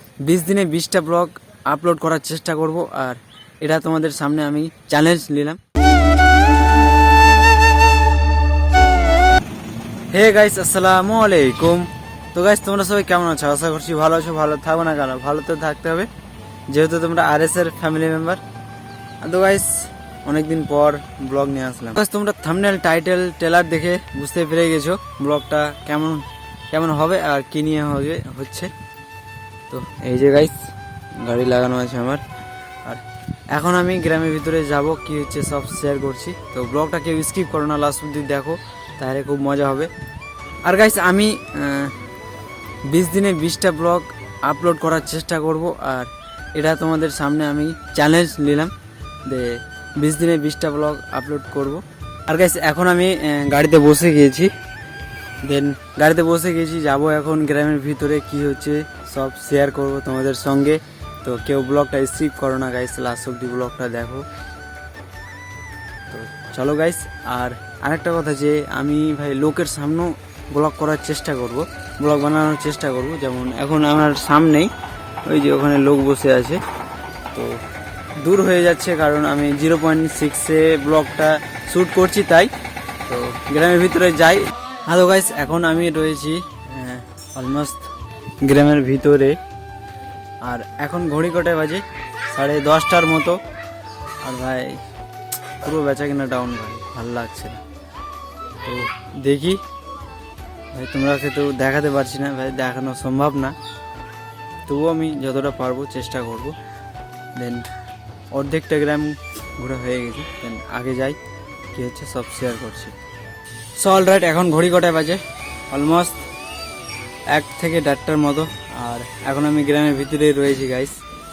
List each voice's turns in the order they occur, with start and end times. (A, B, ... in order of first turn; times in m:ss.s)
0:00.2-0:05.6 A
0:10.1-0:16.1 A
0:16.7-0:18.4 A
0:19.2-0:28.7 A
0:29.7-0:32.2 A
0:32.8-0:39.9 A
0:40.6-0:41.9 A
0:42.9-0:48.7 A
0:49.3-0:54.5 A
0:55.4-1:04.3 A
1:06.1-1:14.7 A
1:15.2-1:16.6 A
1:17.3-1:17.6 A
1:18.2-1:22.5 A
1:23.1-1:27.9 A
1:28.4-1:29.4 A
1:30.4-1:33.4 A
1:34.2-1:34.8 A
1:35.6-1:37.6 A
1:38.6-1:39.6 A
1:40.7-1:43.6 A
1:44.7-1:46.6 A
1:47.3-1:47.7 A
1:48.3-1:51.2 A
1:51.7-1:53.0 A
1:53.8-1:56.3 A
1:57.3-2:01.0 A